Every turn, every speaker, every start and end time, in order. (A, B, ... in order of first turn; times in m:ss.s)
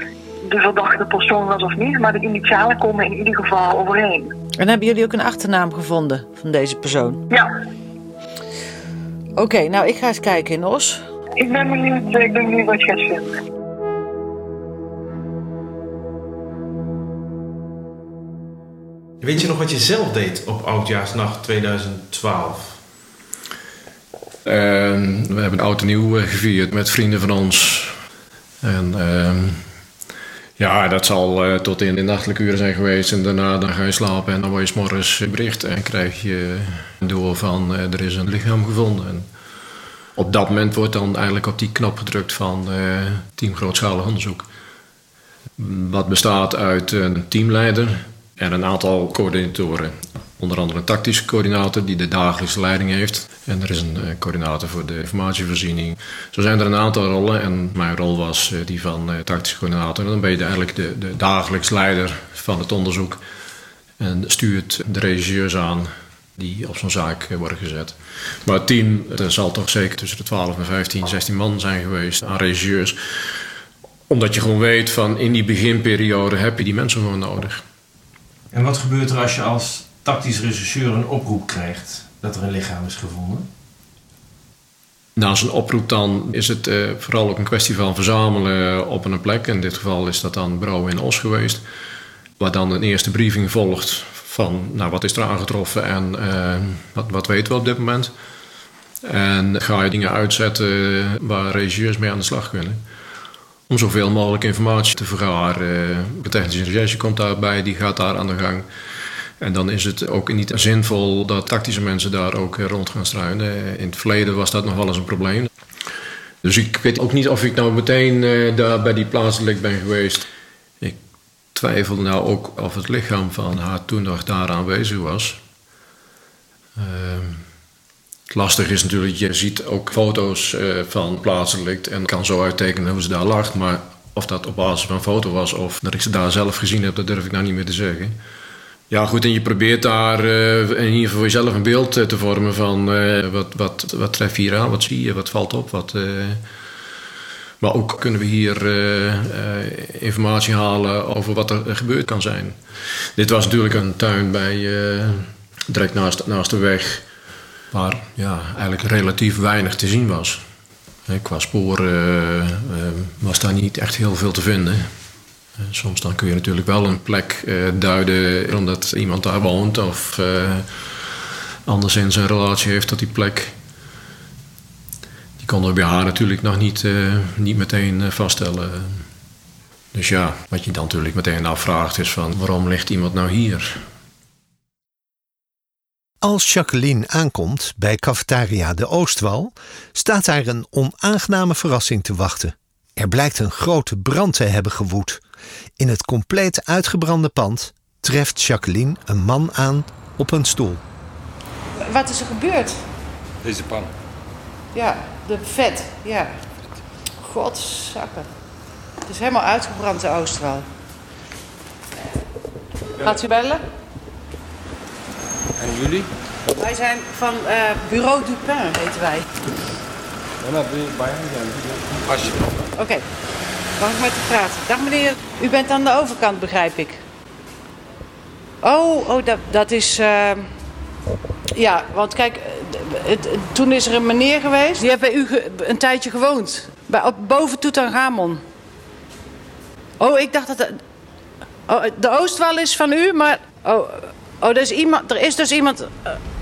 0:00.4-0:04.3 A
0:04.6-0:07.2 B
0:09.4-0:11.0 B
0:11.4-0:13.4 A
0:19.2-0:22.8 C
0:24.4-0:28.0 D
0:28.6-0:29.7 D
0:30.6-0:39.3 D
0:40.2-0:44.5 D
0:45.6-1:03.2 D
1:04.0-1:13.4 D
1:14.1-1:17.6 D
1:18.5-1:23.5 C
1:25.2-1:31.6 D
1:32.4-1:38.1 D
1:39.0-1:42.8 D
1:43.7-1:48.7 D
1:49.4-1:55.5 D
1:56.4-2:00.3 D
2:01.6-2:05.4 D
2:06.8-2:07.5 D
2:08.3-2:18.2 D
2:18.9-2:26.4 D
2:27.6-2:32.6 D
2:33.2-2:37.1 D
2:37.7-2:40.4 D
2:41.1-2:44.9 D
2:45.6-2:53.6 D
2:55.4-2:59.0 D
2:59.9-3:03.8 D
3:06.2-3:15.2 E
3:15.8-3:20.8 E
3:21.8-3:22.8 B
3:23.4-3:23.9 F
3:24.7-3:26.4 B
3:27.2-3:28.3 B
3:29.1-3:30.7 B
3:33.0-3:33.6 B
3:35.6-3:36.0 C
3:36.6-3:39.3 B
3:40.4-3:42.4 F
3:42.7-3:43.0 B
3:43.8-3:47.0 B
3:48.6-3:50.5 B
3:51.5-3:58.4 B
4:00.0-4:00.8 B
4:01.7-4:06.2 B